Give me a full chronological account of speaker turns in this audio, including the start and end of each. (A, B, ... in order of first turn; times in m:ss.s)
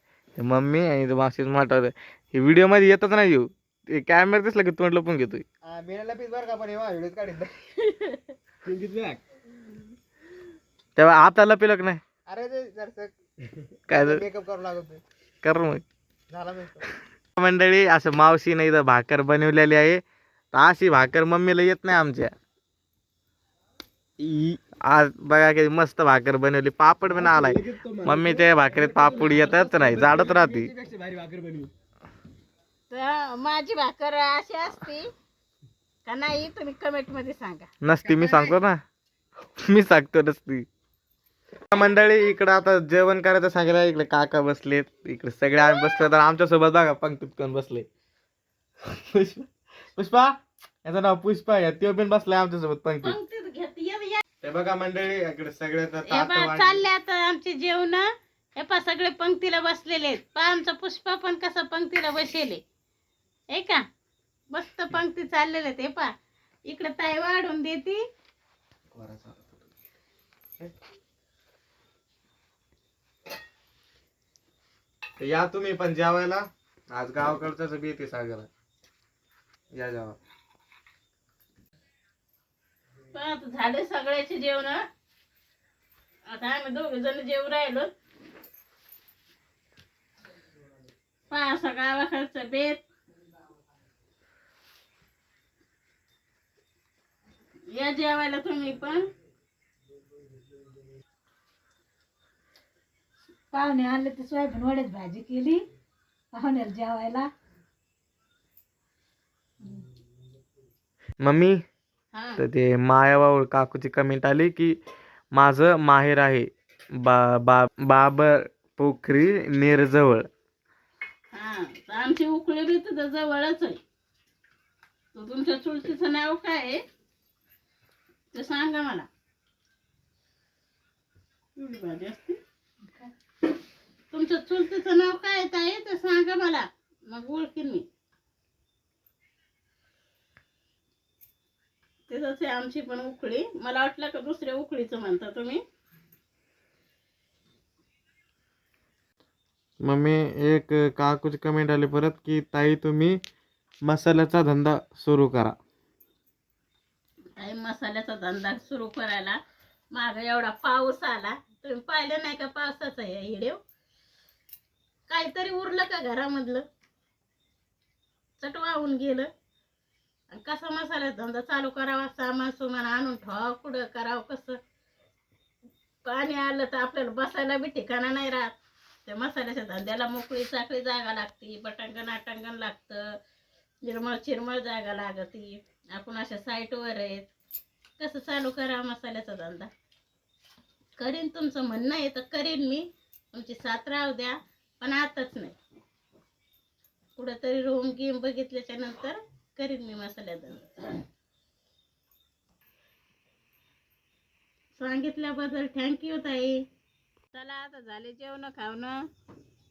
0:00.4-0:05.4 A
0:05.6-0:07.5 B
0:07.8-0:08.3 C
0:08.6-0:09.2 B
0:11.0-0:12.0 A
0:12.3-0:13.1 B
0:13.9-0:14.2 A
0:13.9-0:15.0 B
0:15.4-0:15.8 A
0:16.3-0:16.9 B
0:17.4-0:20.0 A
0:20.5-0:22.3 A
0:24.2-0:24.6 B
0:24.8-0:30.7 A
0:27.1-0:31.7 B
0:32.9-0:35.1 C
0:36.0-0:37.7 C
0:37.8-0:38.8 A
0:39.6-0:40.7 A
0:41.7-0:47.9 A
0:45.7-0:46.0 C
0:48.8-0:53.2 A
0:53.0-0:54.2 C
0:54.4-0:56.8 A
0:56.1-1:02.6 C
1:03.5-1:03.8 C
1:04.5-1:06.1 C
1:06.7-1:08.0 C
1:08.9-1:09.4 A
1:15.2-1:18.5 A
1:19.7-1:20.2 A
1:23.1-1:24.8 C
1:26.3-1:27.9 C
1:31.3-1:32.8 C
1:37.7-1:39.1 C
1:43.5-1:45.6 D
1:46.3-1:47.3 D
1:51.2-1:51.6 A
1:52.1-1:52.4 C
1:52.4-1:54.8 A
1:55.3-2:00.3 A
2:01.3-2:03.8 C
2:05.1-2:06.8 C
2:08.3-2:09.1 C
2:11.6-2:12.4 C
2:14.1-2:17.8 C
2:22.1-2:25.6 C
2:29.8-2:33.2 A
2:33.8-2:35.5 A
2:37.4-2:39.4 C
2:39.9-2:43.6 C
2:45.1-2:46.6 C
2:48.4-2:49.3 C
2:50.3-2:54.6 C
2:56.0-3:03.1 C
3:03.8-3:07.3 C
3:08.0-3:09.7 C
3:11.0-3:15.6 C
3:17.2-3:20.9 C
3:24.8-3:26.6 C
3:27.3-3:29.0 C